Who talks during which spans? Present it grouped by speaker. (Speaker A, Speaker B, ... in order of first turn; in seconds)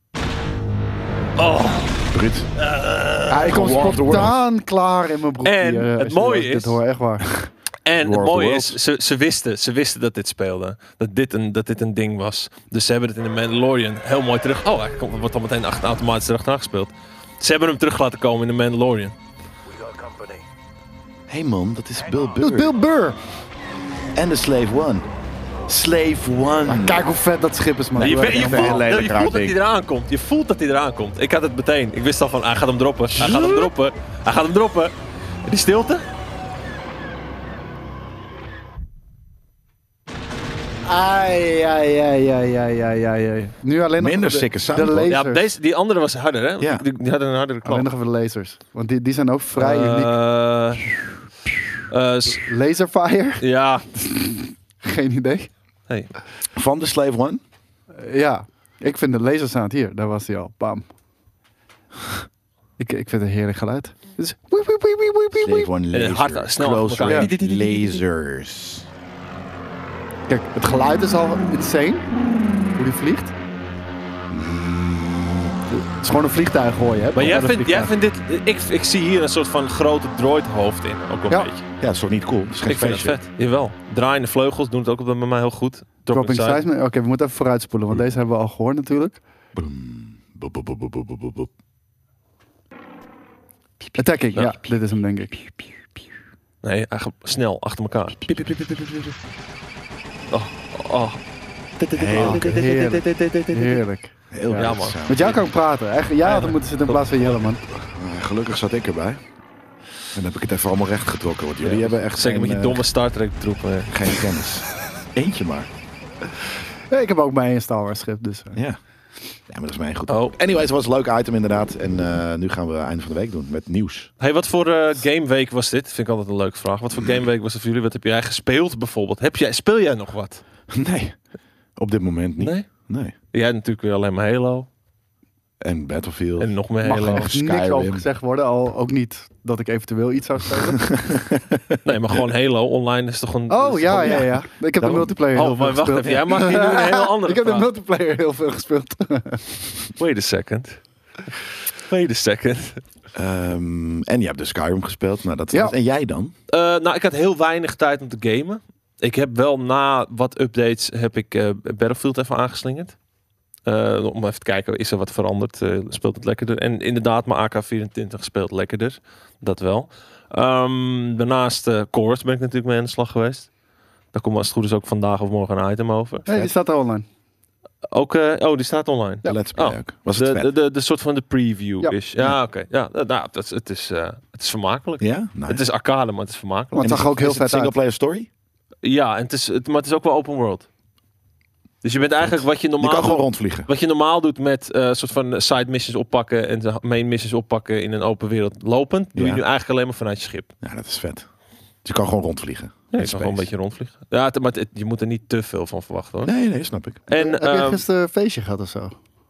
Speaker A: 1.4-2.0, 2.6-4.3, 5.4-6.8, 7.8-19.1, 28.0-36.0, 45.1-47.9, 49.6-50.9, 51.9-52.4, 53.4-53.9, 65.9-67.4, 77.1-81.6, 82.7-86.6, 96.6-98.6, 100.3-101.2, 101.8-103.8, 104.6-105.1, 106.2-107.4, 111.6-114.0, 120.1-120.3, 124.2-130.4, 132.4-132.7, 133.3-134.7, 136.4-137.3, 141.8-144.2, 145.3-147.7, 150.0-150.8, 151.9-152.8, 156.5-163.0, 163.7-173.5, 174.1-176.3, 177.9-187.1, 188.8-190.7, 191.8-200.5, 202.9-206.3, 207.1-207.8
Speaker B: 2.1-2.5, 3.5-4.3, 7.3-8.8, 20.0-20.4, 21.3-22.7, 24.1-25.1, 25.7-27.1, 28.0-29.6, 33.2-33.7, 44.0-45.2, 56.5-57.4, 65.3-68.9, 74.3-75.6, 81.8-83.2, 89.5-91.5, 101.9-102.5, 104.3-105.4, 107.9-109.2, 110.1-112.8, 113.9-115.7, 118.5-118.8, 119.5-124.1, 130.7-131.2, 131.8-133.1, 135.6-138.1, 140.9-141.8, 143.9-145.2, 153.1-156.3, 179.2-180.5, 185.0-185.6, 186.8-188.3, 192.2-193.7, 199.2-199.4, 200.6-201.3, 201.8-203.5, 206.2-207.0
Speaker C: 3.3-7.3, 22.4-23.2, 26.6-28.9, 40.9-45.5, 47.6-50.1, 52.4-53.4, 53.9-55.5, 58.0-60.9, 62.8-65.7, 67.1-67.9, 70.3-72.1, 72.8-73.3, 75.7-77.9, 86.1-89.2, 94.0-95.5, 102.1-107.6, 116.9-118.6, 136.8-141.2, 143.5-149.4, 176.3-177.1, 186.8-187.8, 207.1-208.9